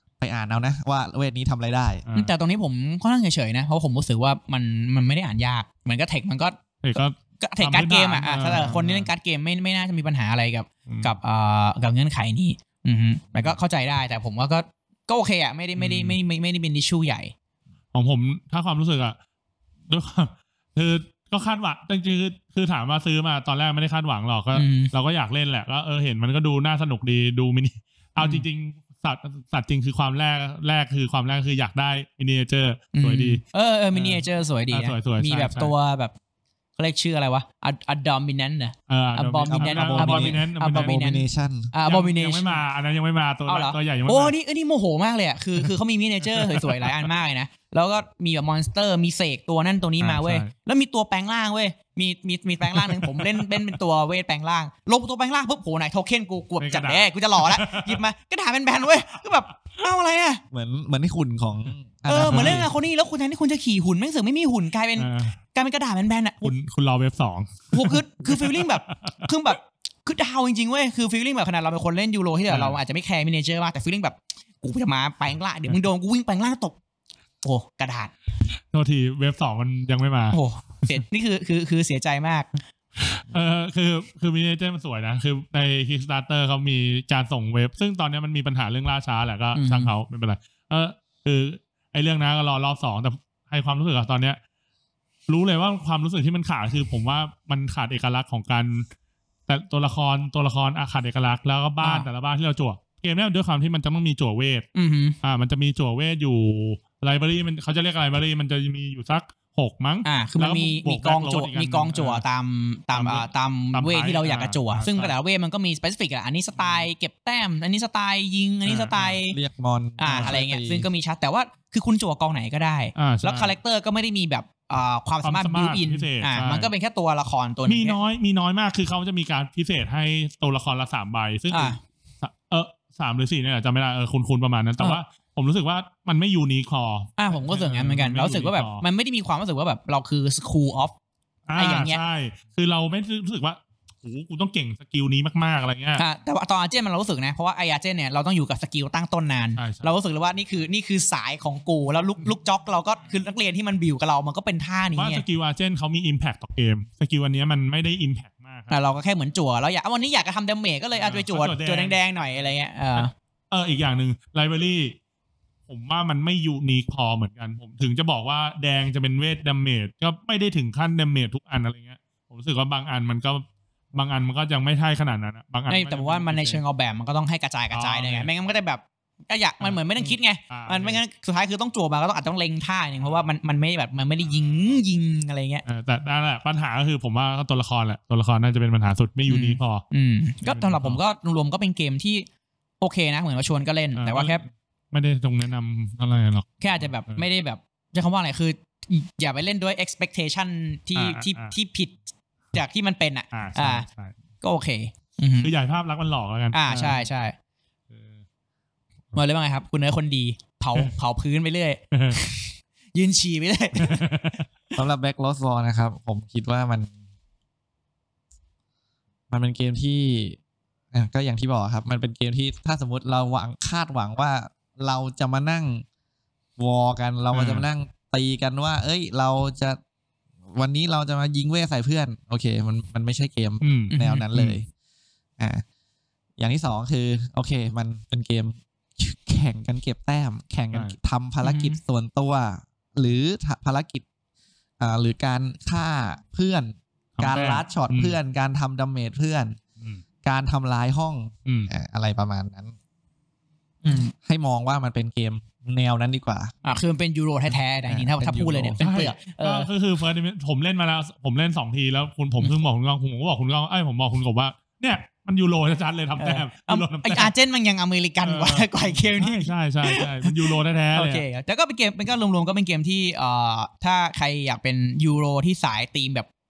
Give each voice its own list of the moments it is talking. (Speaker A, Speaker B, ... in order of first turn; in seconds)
Speaker A: 0.2-2.0, 39.5-41.7, 60.5-62.7, 119.3-120.9, 214.8-216.9, 219.3-220.4, 220.9-225.8, 226.6-229.8, 230.5-234.7, 236.4-244.1, 244.8-249.6, 250.2-252.7, 254.2-256.5, 257.9-258.8
Speaker B: 2.1-2.3, 6.8-9.1, 10.9-11.2, 15.8-16.2, 17.9-19.2, 19.9-33.4, 33.9-35.7, 38.9-41.0, 41.9-44.3, 46.2-47.1, 50.0-50.5, 52.7-53.8, 56.6-58.0, 62.2-62.7, 65.0-65.4, 66.4-69.3, 72.5-72.8, 78.6-81.0, 83.0-94.4, 95.3-98.9, 99.5-104.7, 105.2-112.2, 112.9-115.2, 116.6-116.9, 118.7-119.2, 123.0-123.5, 125.2-126.7, 127.7-138.8, 141.5-146.0, 149.6-150.0, 155.0-158.7, 160.9-165.0, 165.7-176.6, 177.7-178.3, 179.6-181.0, 185.7-189.8, 190.4-191.0, 194.0-197.3, 201.0-201.5, 203.3-204.1, 205.4-207.1, 211.9-212.2, 213.8-214.5, 227.3-227.7, 233.6-234.6, 247.2-248.2, 251.5-251.7, 258.8-267.3, 268.2-271.2
Speaker C: 2.1-17.3, 24.5-24.9, 28.2-28.5, 32.9-36.1, 36.8-42.6, 43.5-60.4, 62.1-66.5, 67.7-76.8, 77.4-78.1, 80.3-82.5, 89.5-89.9, 101.8-102.1, 104.8-105.2, 110.0-119.4, 120.0-128.0, 131.5-131.8, 137.2-140.9, 141.6-142.0, 146.0-155.2, 158.7-163.1, 175.7-185.6, 189.3-192.3, 192.8-194.4, 196.6-201.9, 202.5-203.8, 204.4-205.5, 206.5-207.3, 209.1-214.0, 233.9-234.2, 241.4-241.8, 253.8-254.1, 256.6-259.7, 266.2-276.3